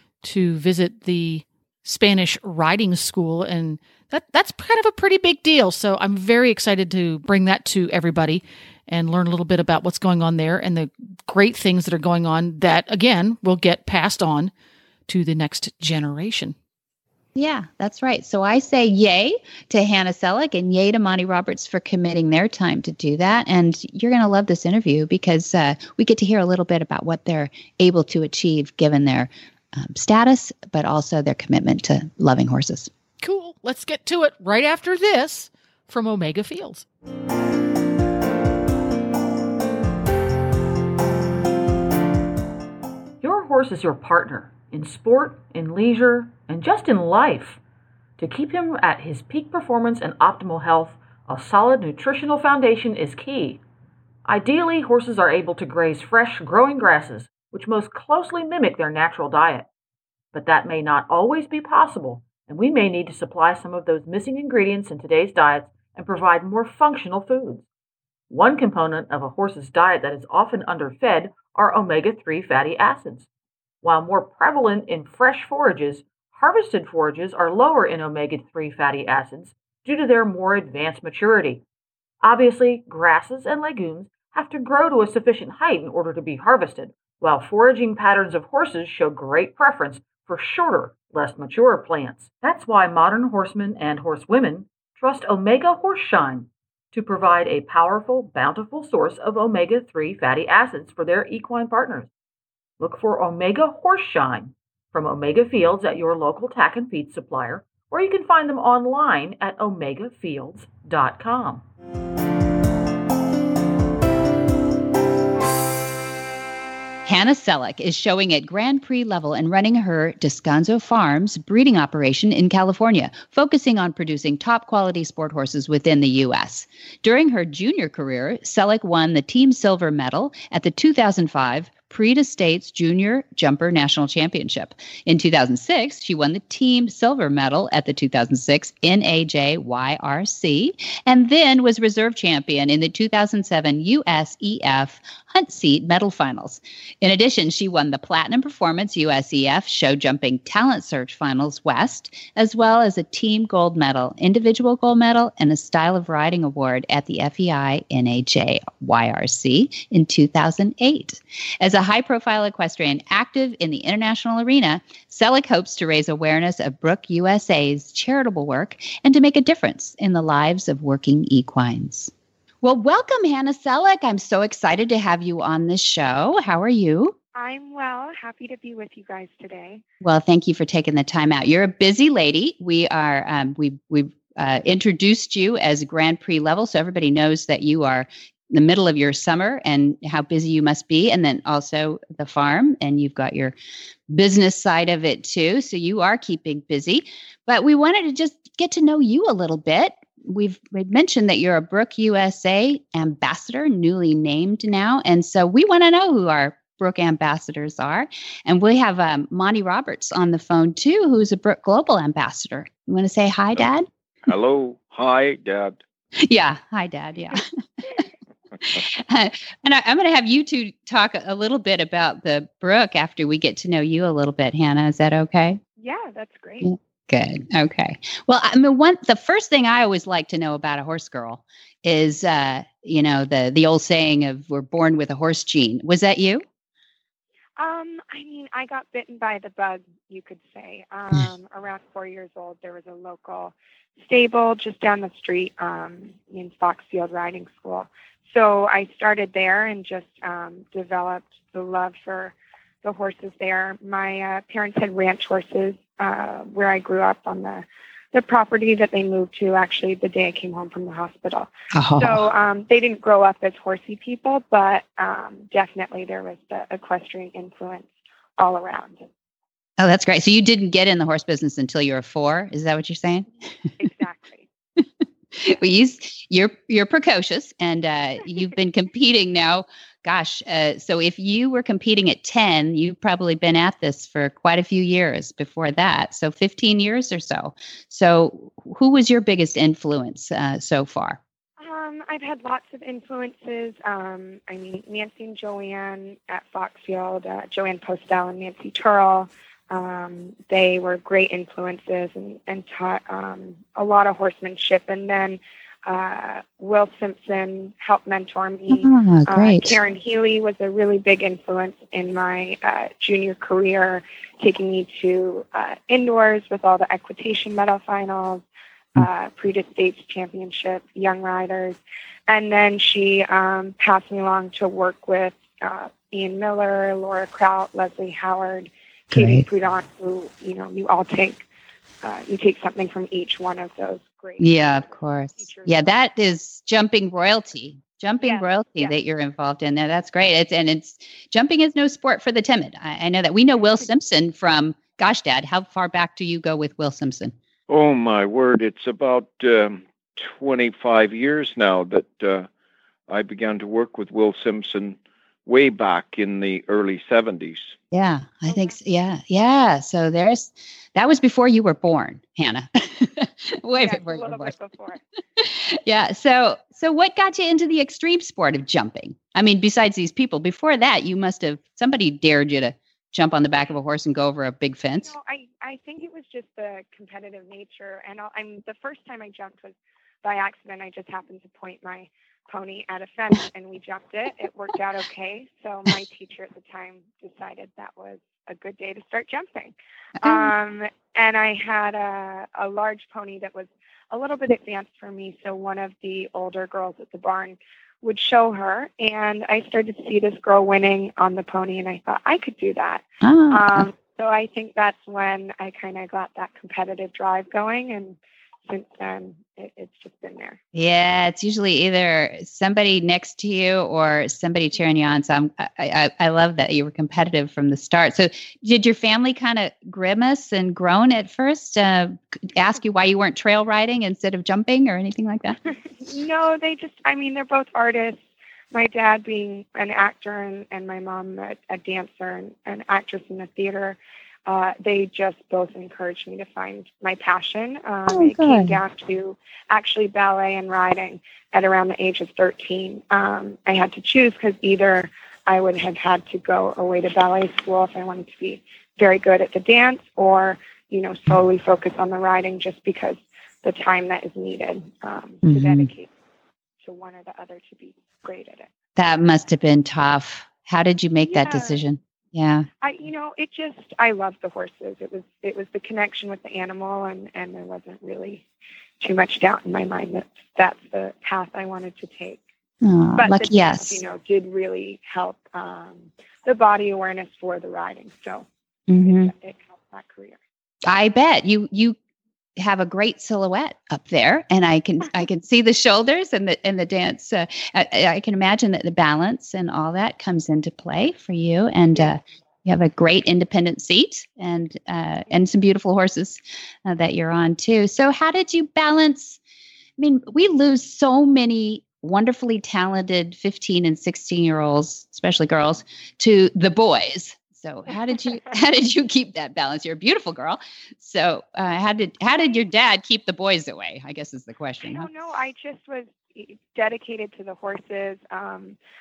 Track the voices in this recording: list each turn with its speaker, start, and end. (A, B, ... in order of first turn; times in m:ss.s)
0:00.2-0:14.5 A
0:15.1-0:16.6 A
0:17.3-0:32.9 B
0:33.2-0:36.8 A
0:43.2-0:47.6 C
0:48.2-0:53.6 C
0:54.2-0:59.7 C
1:00.3-1:07.6 C
1:08.3-1:13.3 C
1:13.8-1:21.6 C
1:22.2-1:42.1 C
1:42.8-1:51.6 C
1:57.0-2:57.1 B
2:57.3-2:59.8 D
3:00.0-3:13.5 B
3:14.1-3:33.9 B
3:34.3-3:35.8 E
3:36.2-3:37.4 B
3:38.6-3:45.6 B
3:45.8-3:46.7 D
3:46.6-3:56.4 B
3:57.6-4:29.0 D
4:21.7-4:22.3 B
4:29.8-4:33.3 B
4:33.8-4:34.4 D
4:35.3-4:51.2 B
4:51.6-5:31.4 D
5:08.7-5:09.8 B
5:29.1-5:29.5 B
5:32.0-5:34.6 D
5:34.4-5:47.3 B
5:35.4-5:35.9 D
5:38.2-5:38.9 D
5:43.6-5:43.9 D
5:47.7-5:52.5 E
5:53.1-5:57.8 E
5:57.9-6:04.5 B
5:58.5-5:58.8 D
6:03.8-6:05.0 D
6:05.4-6:15.1 B
6:15.0-6:50.6 D
6:30.2-6:30.5 B
6:43.2-6:43.9 B
6:50.7-7:05.6 B
7:06.0-7:36.1 D
7:18.1-7:18.8 B
7:35.4-7:35.9 B
7:36.8-7:38.7 D
7:39.0-7:42.7 B
7:41.2-7:41.8 D
7:42.8-7:48.4 D
7:49.0-7:52.4 D
7:52.8-7:54.0 B
7:53.2-7:58.5 D
7:58.9-7:59.3 B
7:59.0-8:00.4 D
8:00.8-8:02.0 B
8:02.6-8:19.4 B
8:20.0-8:35.1 B
8:34.9-8:38.8 D